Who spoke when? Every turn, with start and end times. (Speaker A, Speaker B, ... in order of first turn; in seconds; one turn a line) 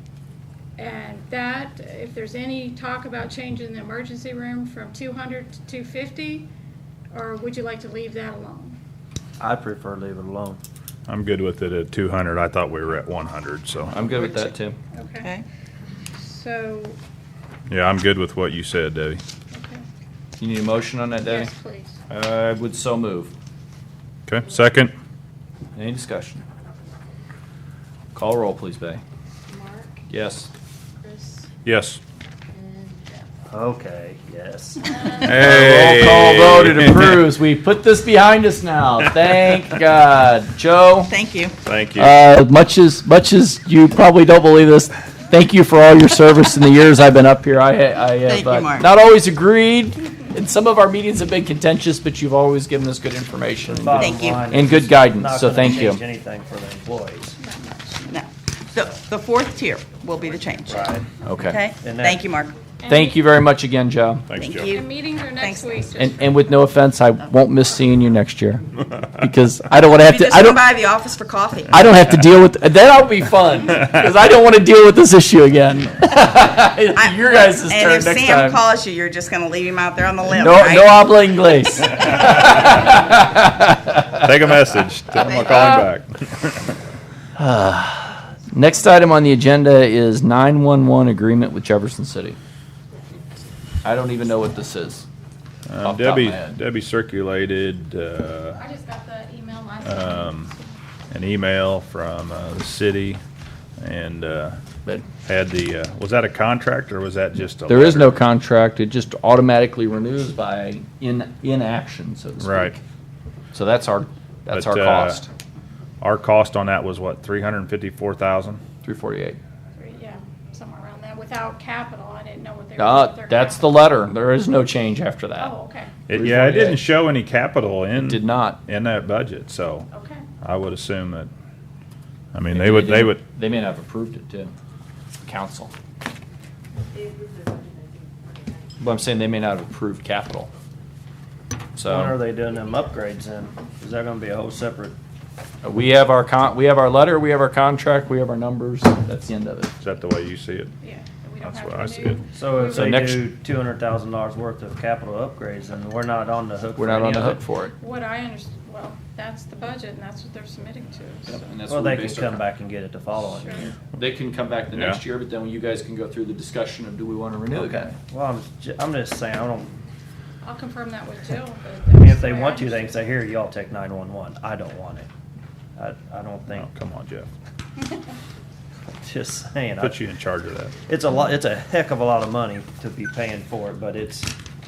Speaker A: 0.8-6.5
Speaker A: 7.1-8.8
Speaker B: 9.4-10.6
Speaker C: 11.1-14.1
Speaker D: 13.9-14.8
Speaker E: 14.2-14.5
Speaker A: 14.9-15.3
Speaker A: 16.2-17.0
Speaker C: 17.7-19.2
Speaker A: 19.5-19.9
Speaker D: 20.4-21.5
Speaker A: 21.3-22.0
Speaker D: 22.1-23.3
Speaker C: 24.3-24.9
Speaker D: 25.8-26.4
Speaker D: 28.1-29.0
Speaker D: 30.1-30.5
Speaker C: 31.6-32.0
Speaker B: 33.5-35.4
Speaker C: 35.2-37.3
Speaker D: 35.2-41.1
Speaker E: 41.1-41.6
Speaker C: 41.6-42.2
Speaker D: 42.0-56.0
Speaker E: 48.2-48.9
Speaker B: 53.7-57.4
Speaker E: 54.0-54.4
Speaker A: 57.4-58.1
Speaker E: 58.1-62.5
Speaker B: 60.7-61.0
Speaker D: 61.2-61.6
Speaker B: 61.8-62.2
Speaker A: 62.8-63.2
Speaker D: 62.9-64.3
Speaker C: 64.3-64.7
Speaker E: 64.4-65.9
Speaker A: 64.7-66.3
Speaker D: 66.0-70.6
Speaker E: 69.8-71.9
Speaker D: 71.7-78.6
Speaker E: 77.0-81.2
Speaker D: 80.3-84.1
Speaker C: 84.2-86.6
Speaker E: 85.2-85.9
Speaker D: 85.3-85.6
Speaker D: 87.4-92.4
Speaker D: 93.8-95.1
Speaker C: 95.7-98.6
Speaker D: 95.8-96.5
Speaker A: 98.6-100.8
Speaker C: 99.8-100.5
Speaker C: 101.1-103.2
Speaker C: 103.8-104.6
Speaker C: 105.2-108.2
Speaker D: 107.7-112.8
Speaker C: 112.4-112.8
Speaker D: 113.5-115.3
Speaker C: 114.5-115.2
Speaker C: 116.0-118.6
Speaker D: 118.8-119.4
Speaker A: 119.8-123.8
Speaker D: 122.8-125.5
Speaker A: 125.4-125.9
Speaker C: 126.1-129.9
Speaker D: 126.1-126.8
Speaker D: 128.0-128.6
Speaker A: 129.9-130.2
Speaker C: 130.4-131.3
Speaker C: 132.3-133.2
Speaker D: 132.5-134.5
Speaker D: 135.2-135.7
Speaker D: 138.8-140.5
Speaker D: 141.8-142.2
Speaker B: 141.8-145.0
Speaker D: 145.6-149.7
Speaker C: 149.8-150.7
Speaker A: 150.8-152.9
Speaker C: 151.4-152.3
Speaker B: 152.3-157.4
Speaker D: 152.7-153.2
Speaker D: 156.8-157.8
Speaker A: 157.8-161.5
Speaker D: 161.3-162.4
Speaker B: 161.7-163.8
Speaker A: 163.4-163.7
Speaker D: 163.9-167.9
Speaker C: 164.7-165.0
Speaker B: 167.6-169.7
Speaker A: 170.4-172.9
Speaker B: 172.0-175.1
Speaker B: 175.8-176.7
Speaker C: 176.5-177.3
Speaker B: 179.0-180.0
Speaker C: 179.8-180.8
Speaker B: 180.9-184.3